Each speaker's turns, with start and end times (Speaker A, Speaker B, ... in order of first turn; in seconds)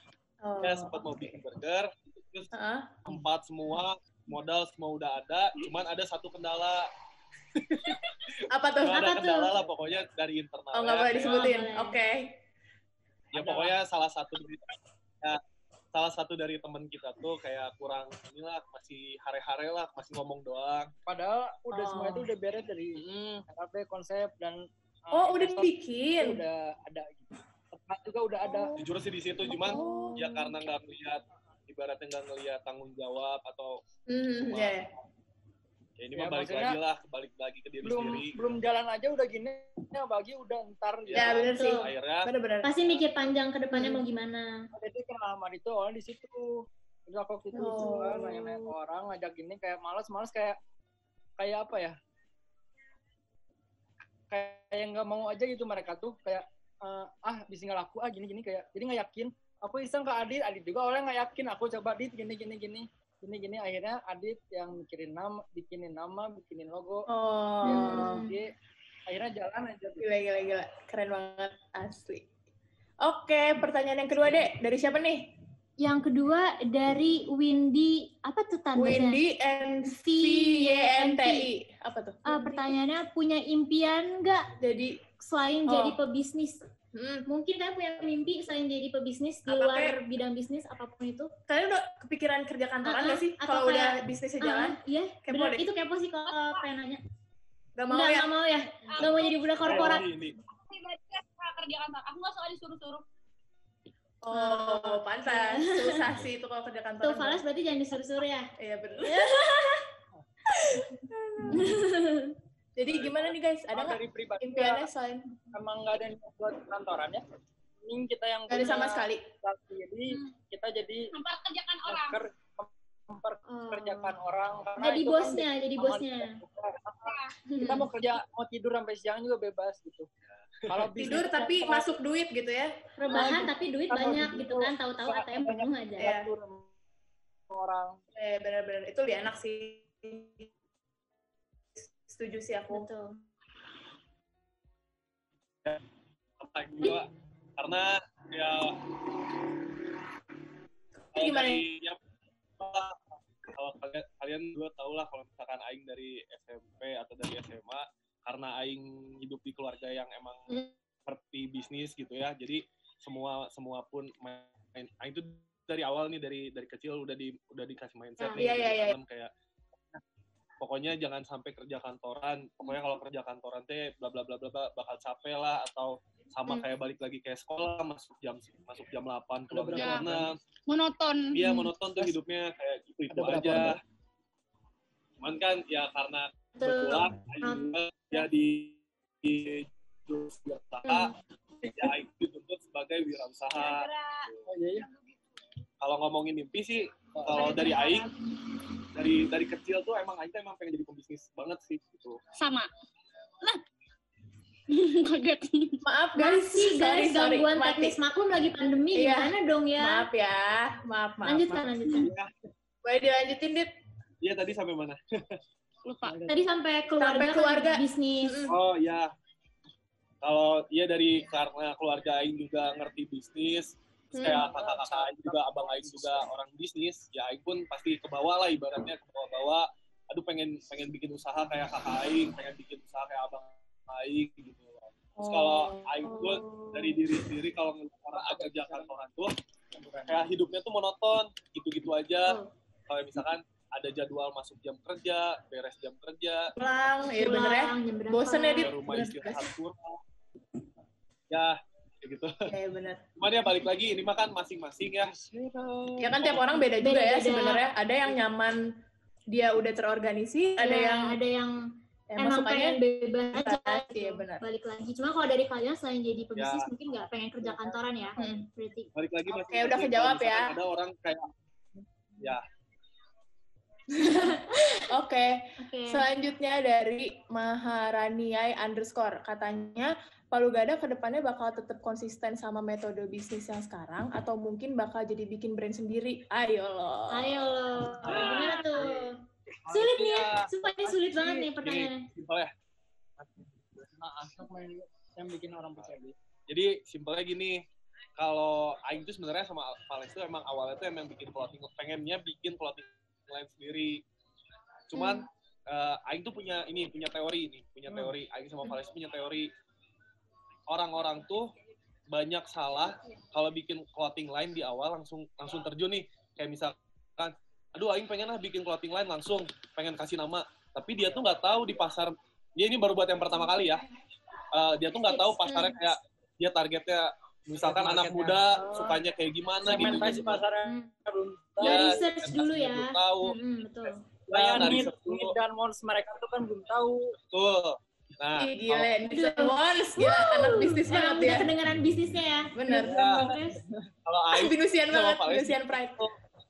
Speaker A: 0.4-1.0, 2.5-3.0, 8.5-9.2, 10.7-12.4, 21.7-22.3, 25.1-26.4, 28.4-28.8, 29.4-30.5, 34.1-34.9, 41.1-42.7, 43.7-44.0, 47.5-48.7, 67.1-68.2, 70.0-72.2, 73.0-75.3, 78.8-82.7, 84.6-85.0, 85.7-86.0, 86.9-87.3, 89.5-90.0, 91.5-95.7, 97.8-98.3, 98.9-99.2, 104.2-107.4, 108.6-109.4, 110.6-111.7, 112.8-115.3, 118.5-119.3, 131.0-133.3, 136.0-136.3, 138.2-140.5, 141.8-142.9, 151.1-151.7, 168.3-169.0, 205.8-208.0, 208.9-211.7, 212.8-213.7, 217.0-218.6, 224.2-224.5, 235.2-236.4, 246.6-249.5, 252.5-253.0, 256.0-258.6, 259.3-261.2, 262.1-262.8, 263.3-264.4, 268.2-268.4, 269.3-270.5, 273.9-287.4, 338.4-341.5, 342.6-343.0, 344.3-346.1
Speaker B: 0.6-2.5, 3.0-6.9, 7.6-8.2, 8.8-11.5, 13.3-15.4, 15.9-20.9, 22.9-23.4, 28.8-33.8, 34.4-34.8, 36.0-38.4, 41.1-43.0, 99.6-100.4, 112.9-113.3, 130.6-130.9, 146.4-148.8, 151.1-152.0, 152.6-160.5, 161.1-169.3, 170.6-180.4, 181.3-183.8, 185.2-191.1, 191.8-194.4, 195.8-198.1, 198.9-202.2, 211.9-212.3, 214.2-215.4, 218.5-219.1, 220.2-239.3, 240.1-246.5, 248.6-250.0, 251.3-252.5, 253.2-255.1, 266.4-266.7, 268.9-271.3, 288.1-288.9, 291.6-292.5, 293.2-293.9, 296.5-297.6, 298.2-304.0, 304.9-309.5, 310.7-311.5, 312.1-323.9, 324.5-330.4, 331.6-333.4, 334.3-335.4, 337.3-338.9, 342.9-343.3, 344.1-346.1
Speaker C: 8.9-9.5, 11.2-12.0, 29.5-30.2, 41.5-41.9, 42.6-44.7, 67.7-68.3, 75.8-79.2, 79.8-81.5, 82.3-84.5, 85.2-86.6, 87.3-91.3, 92.8-97.0, 97.9-100.1, 104.3-106.1, 107.0-108.5, 109.0-109.8, 111.5-112.4, 123.5-124.2, 124.8-126.4, 127.5-127.9, 133.0-136.1, 142.7-143.2, 168.2-168.5, 186.6-188.2, 206.2-210.1, 211.2-212.1, 216.3-218.4, 236.1-237.0, 242.2-242.5, 247.1-249.1, 256.7-257.6, 260.6-261.5, 262.2-268.9, 274.0-274.8, 275.6-276.0, 287.1-292.1, 304.9-305.2, 324.9-325.8, 329.7-330.9, 331.6-334.0, 339.1-343.6
Speaker D: 13.3-13.8, 21.1-28.8, 36.1-36.8, 37.8-41.5, 44.8-50.6, 51.4-52.0, 54.3-67.1, 67.6-68.5, 69.1-70.0, 113.7-114.9, 115.5-117.2, 117.8-121.1, 121.9-130.1, 130.7-131.9, 133.1-136.7, 137.5-138.0, 179.5-180.3, 183.1-183.8, 191.6-191.9, 194.5-194.9, 197.2-197.5, 216.0-216.4, 224.2-226.2, 238.1-238.9, 239.7-240.2, 255.0-256.5, 267.4-268.4, 288.1-289.1, 289.7-291.5, 294.0-296.1, 327.6-329.0, 329.6-332.0, 334.3-337.2, 342.7-343.9
Speaker E: 96.3-96.7, 98.9-100.1, 100.7-103.0, 121.1-122.2, 127.1-127.3, 179.8-180.1, 180.7-181.4, 193.5-194.3, 202.4-202.7, 204.7-205.8, 215.8-216.2